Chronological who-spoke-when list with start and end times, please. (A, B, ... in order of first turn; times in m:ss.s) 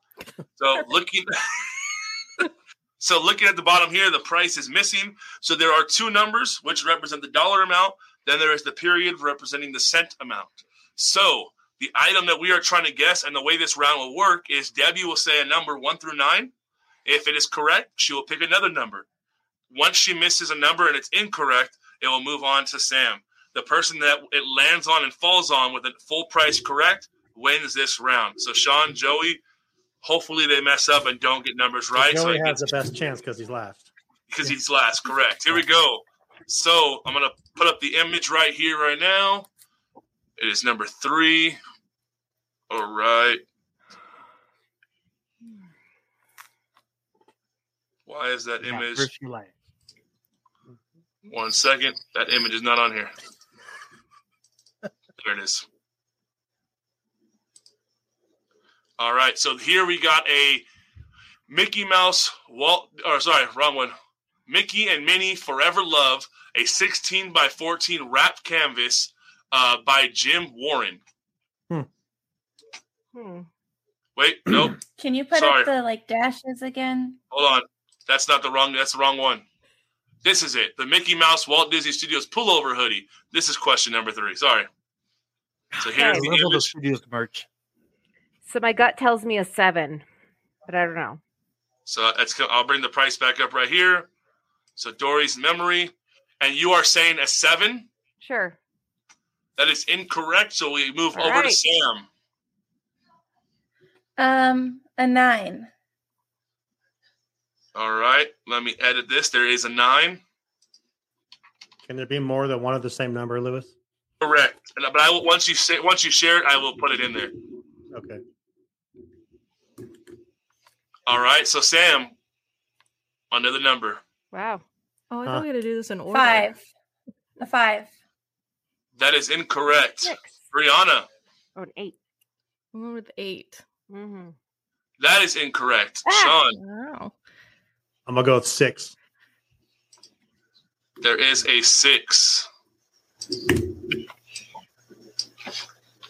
0:00.6-0:01.7 A
0:03.0-0:16.5 A
0:17.1-0:19.1 A
0:19.7-0:29.4 A
0:30.0-0:32.7 A
0:31.9-0:33.9 B
0:34.3-0:39.5 A
0:40.4-0:41.6 A
0:42.7-0:43.4 A
0:48.1-0:49.1 A
0:48.6-0:49.5 C
0:51.3-0:53.1 A
0:55.2-0:55.6 A
0:59.0-1:00.6 A
1:01.5-1:03.9 A
1:04.5-1:11.0 A
1:13.1-1:13.5 D
1:14.2-1:14.8 A
1:15.0-1:17.2 E
1:15.3-1:15.7 A
1:17.3-1:19.4 A
1:20.2-1:24.7 A
1:25.8-1:27.5 C
1:25.8-1:26.7 A
1:26.0-1:26.3 D
1:28.5-1:30.0 D
1:30.7-1:31.2 D
1:31.9-1:34.1 A
1:34.8-1:37.9 A
1:38.2-1:38.6 D
1:39.6-1:42.1 A
1:41.1-1:41.6 D
1:44.2-1:45.7 E
1:47.8-1:50.2 A
1:51.8-1:53.7 B
1:54.2-1:57.3 A
1:57.9-1:58.2 B
2:01.1-2:02.1 A
2:03.3-2:04.0 A
2:04.3-2:04.6 D
2:05.1-2:06.5 F
2:06.1-2:06.6 E
2:07.4-2:07.9 E
2:09.0-2:11.1 A
2:10.0-2:10.4 D
2:11.6-2:12.0 D
2:12.7-2:13.6 F
2:13.9-2:14.4 D
2:15.0-2:16.6 A
2:16.1-2:16.4 D
2:16.5-2:17.1 F
2:18.1-2:18.9 B
2:21.0-2:22.5 A